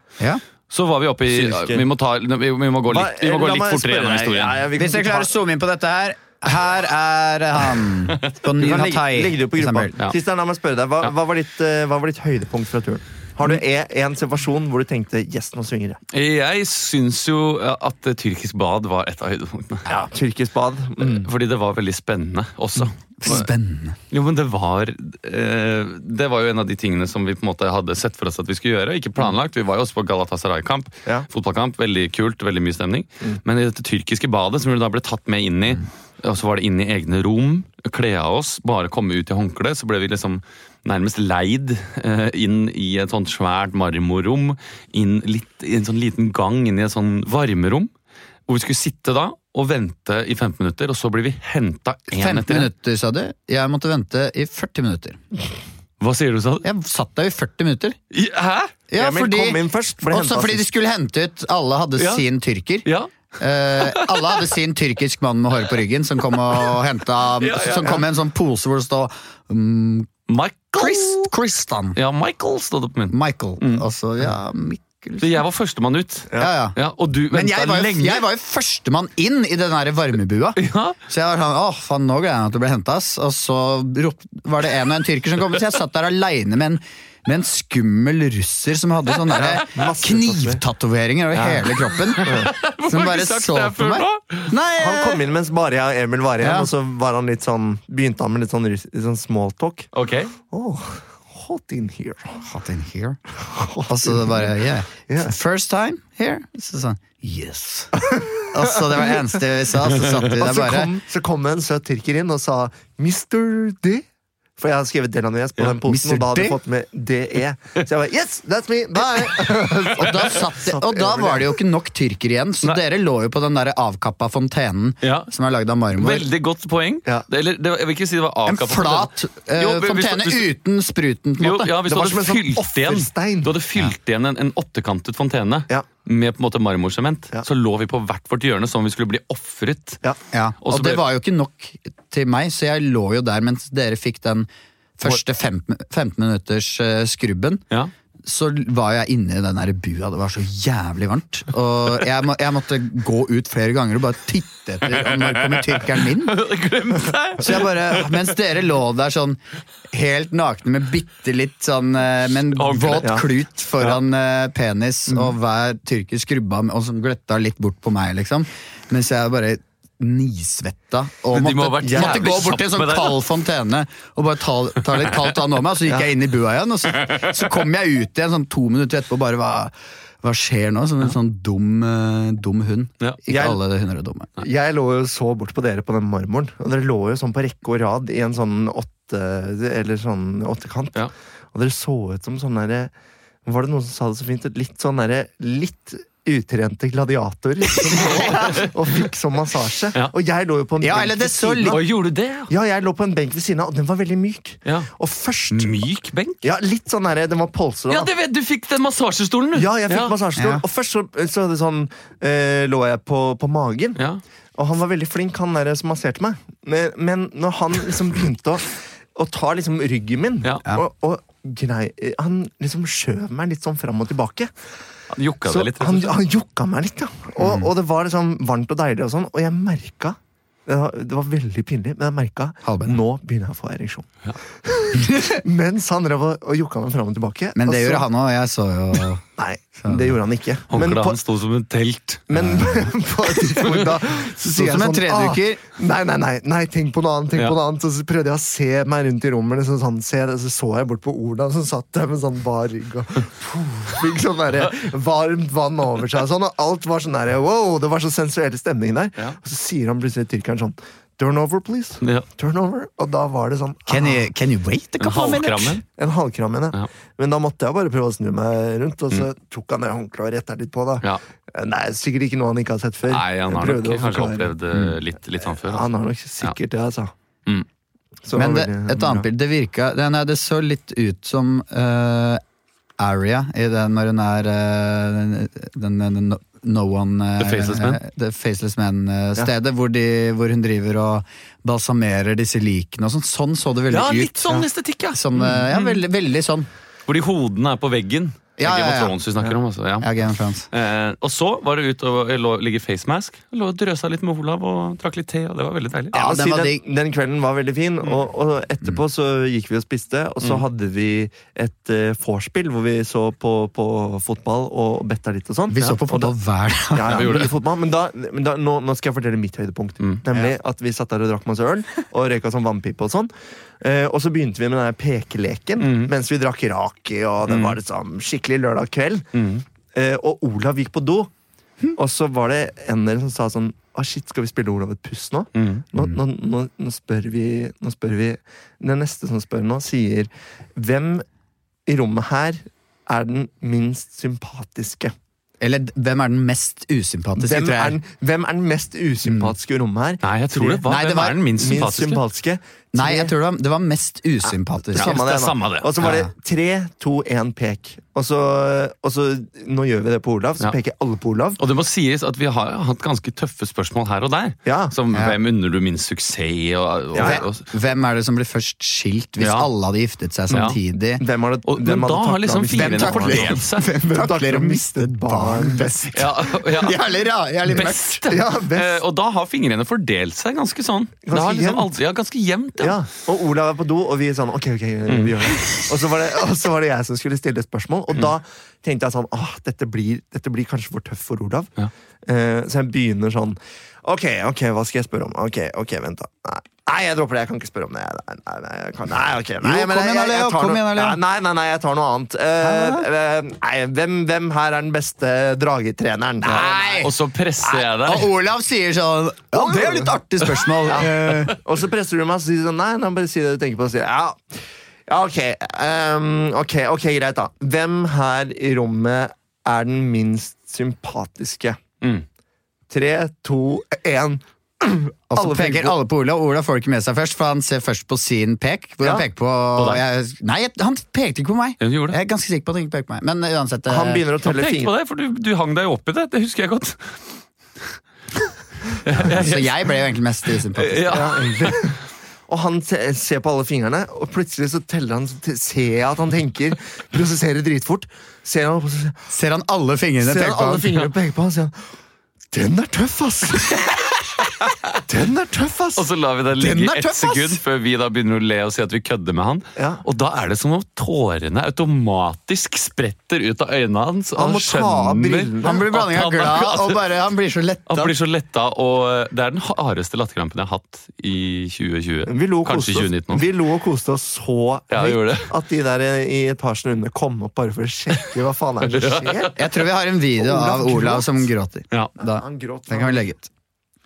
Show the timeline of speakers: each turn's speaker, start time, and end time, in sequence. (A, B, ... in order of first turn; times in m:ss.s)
0:00.7-0:04.6 A
0:01.3-0:01.8 B
0:02.9-0:05.3 B
0:04.8-0:10.0 C
0:08.1-0:08.8 A
0:08.6-0:16.0 B
0:16.1-0:20.0 A
0:19.9-0:21.3 B
0:21.0-0:23.5 A
0:23.2-0:24.0 C
0:24.1-0:47.9 A
0:48.5-0:52.7 A
0:52.1-0:55.2 C
0:56.0-0:56.7 A
0:56.6-0:58.0 C
0:58.1-0:58.7 A
0:58.9-1:02.9 C
0:59.0-1:00.7 B
1:02.0-1:02.2 A
1:02.8-1:03.1 A
1:03.4-1:10.1 C
1:03.8-1:04.4 A
1:07.4-1:08.0 A
1:10.3-1:11.3 A
1:10.8-1:12.0 C
1:12.0-1:13.8 A
1:13.1-1:15.4 C
1:15.2-1:18.2 A
1:16.4-1:16.8 C
1:17.3-1:32.3 C
1:20.6-1:21.0 A
1:29.3-1:29.6 A
1:29.3-1:30.6 B
1:31.4-1:31.6 B
1:31.4-1:34.5 A
1:32.2-1:32.5 B
1:32.9-1:35.2 C
1:34.8-1:39.9 B
1:36.4-1:36.7 C
1:39.9-1:40.3 A
1:40.5-1:42.4 B
1:42.5-1:43.2 C
1:43.5-1:44.5 B
1:43.9-1:50.9 C
1:45.1-1:45.3 B
1:48.0-1:49.2 B
1:50.2-1:54.0 B
1:54.6-2:01.6 B
1:55.8-1:56.6 C
1:59.9-2:06.2 C
2:05.0-2:05.3 A
2:05.9-2:10.5 A
2:08.5-2:11.7 C
2:11.4-2:20.0 A
2:11.9-2:13.5 B
2:20.3-2:27.6 C
2:20.6-2:21.0 A
2:28.2-2:36.4 C
2:34.8-2:38.3 A
2:37.4-2:39.4 C
2:39.9-3:04.4 C
2:42.5-2:43.2 A
2:43.0-2:43.2 B
2:51.3-2:53.2 A
2:51.8-2:52.2 B
3:03.3-3:03.6 B
3:04.4-3:11.0 B
3:11.5-3:12.9 B
3:13.4-3:21.8 B
3:17.8-3:18.6 C
3:18.0-3:18.7 A
3:20.8-3:21.8 C
3:21.7-3:22.5 A
3:22.5-3:25.8 B
3:25.5-3:26.4 A
3:26.4-3:28.1 B
3:27.9-3:30.2 A
3:29.6-3:34.0 B
3:30.4-3:30.6 C
3:34.0-3:34.2 A
3:34.6-3:44.5 B
3:45.1-3:46.2 A
3:45.5-3:58.1 B
3:47.4-3:47.7 C
3:52.6-3:53.0 C
3:55.0-3:55.4 C
3:57.6-3:59.2 C
3:59.4-4:01.2 B
3:59.8-4:00.2 C
4:00.7-4:02.2 A
4:02.3-4:24.2 B
4:02.3-4:02.9 C
4:04.5-4:05.6 C
4:23.9-4:25.8 C
4:25.0-4:25.8 A
4:26.0-4:34.5 B
4:33.1-4:35.9 A
4:35.6-4:37.1 B
4:38.2-4:39.2 B
4:38.3-4:42.4 C
4:43.0-4:56.7 C
4:47.4-4:48.0 A
4:53.9-4:56.0 A
4:57.1-5:00.1 A
4:58.6-4:59.2 C
5:00.0-5:00.7 C
5:00.7-5:06.2 A
5:06.1-5:16.3 B
5:06.1-5:06.8 C
5:15.7-5:17.5 C
5:16.9-5:29.3 B
5:17.1-5:17.6 A
5:25.8-5:26.1 A
5:27.5-5:27.8 A
5:29.3-5:29.6 A
5:29.9-5:31.3 B
5:32.0-5:41.2 B
5:35.6-5:35.8 A
5:41.9-5:45.1 B
5:45.6-5:48.0 C
5:47.4-5:50.8 B
5:49.2-5:49.5 C
5:50.2-5:52.2 A
5:50.9-5:51.4 C
5:51.6-5:53.3 B
5:52.9-5:55.2 C
5:54.9-6:01.6 B
5:54.9-5:55.9 A
5:56.0-5:56.3 C
6:01.6-6:07.7 A
6:04.7-6:04.9 B
6:05.1-6:05.4 C
6:07.1-6:07.4 B
6:07.2-6:11.2 C
6:09.4-6:09.7 A
6:10.5-6:16.3 B
6:11.7-6:13.9 A
6:12.7-6:18.2 C
6:16.1-6:17.0 A
6:17.7-6:23.0 A
6:18.3-6:19.0 B
6:21.2-6:21.9 B
6:22.8-6:31.7 B
6:25.1-6:25.8 A
6:32.2-6:47.0 B
6:39.6-6:41.2 C
6:42.6-6:43.1 C
6:46.4-6:51.6 C
6:46.5-6:48.3 A
6:49.5-6:50.1 B
6:50.9-7:01.8 B
6:51.0-6:51.6 A
7:02.9-7:06.0 B
7:05.3-7:14.2 C
7:09.8-7:10.0 A
7:11.8-7:12.2 A
7:13.9-7:14.9 B
7:14.4-7:17.2 A
7:19.0-7:19.9 A
7:19.2-7:21.2 C
7:20.8-7:21.8 A
7:21.1-7:29.2 B
7:29.3-7:30.9 C
7:30.2-7:31.8 B
7:32.5-7:34.2 B
7:35.0-7:36.0 B
7:36.0-7:47.0 A
7:36.6-7:37.6 C
7:39.8-7:40.0 B
7:44.4-7:45.8 B
7:45.6-7:48.1 C
7:47.9-7:53.5 A
7:52.3-7:59.6 B
7:54.9-7:55.5 A
7:58.8-7:59.5 A
7:59.5-8:03.5 C
8:00.4-8:01.5 B
8:02.2-8:03.3 B